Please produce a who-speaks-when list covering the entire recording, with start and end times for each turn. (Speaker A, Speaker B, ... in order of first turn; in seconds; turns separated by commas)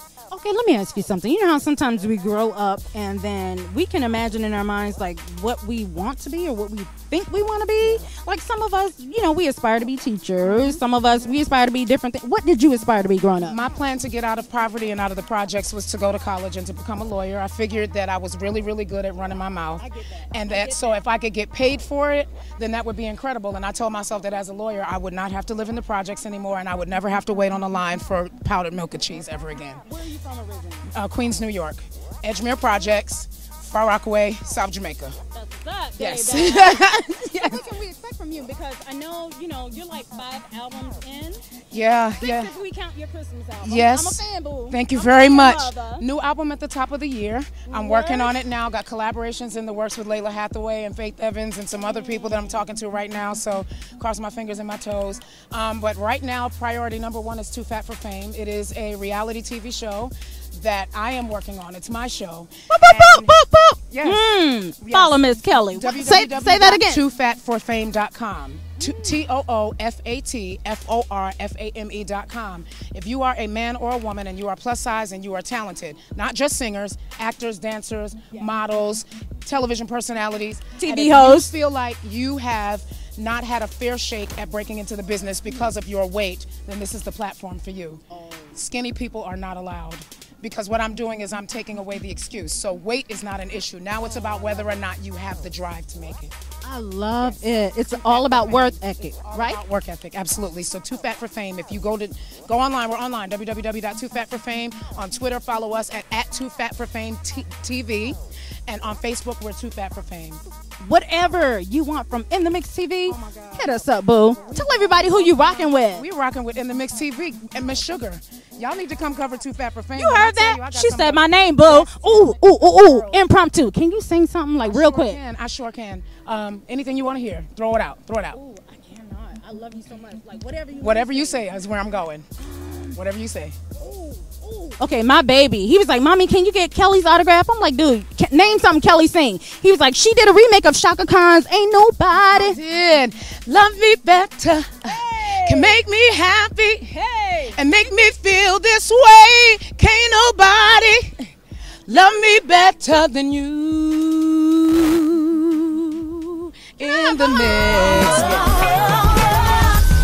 Speaker A: 0.3-13.6, Speaker B: 10.4-10.8, Speaker B: 13.4-29.9, Speaker A: 19.8-21.0, Speaker A: 29.8-30.9, Speaker B: 30.9-35.2, Speaker A: 35.3-41.4, Speaker B: 36.0-37.6, Speaker B: 41.7-42.5, Speaker A: 42.2-46.0, Speaker B: 43.6-65.2, Speaker A: 47.7-48.4, Speaker A: 51.8-52.6, Speaker A: 62.7-67.0, Speaker B: 65.7-96.3, Speaker A: 68.8-69.2, Speaker A: 80.8-81.5, Speaker A: 88.1-88.6, Speaker A: 94.0-94.7, Speaker A: 96.6-99.6, Speaker B: 97.2-110.4, Speaker A: 110.8-116.1, Speaker B: 113.1-123.3, Speaker A: 120.0-125.2, Speaker B: 124.6-128.4, Speaker A: 128.3-131.5, Speaker B: 130.8-132.3, Speaker A: 132.4-133.0, Speaker B: 132.9-133.6, Speaker A: 133.8-142.6, Speaker B: 142.3-151.3, Speaker A: 144.8-145.8, Speaker A: 146.9-147.6, Speaker B: 151.9-159.5, Speaker A: 157.0-159.8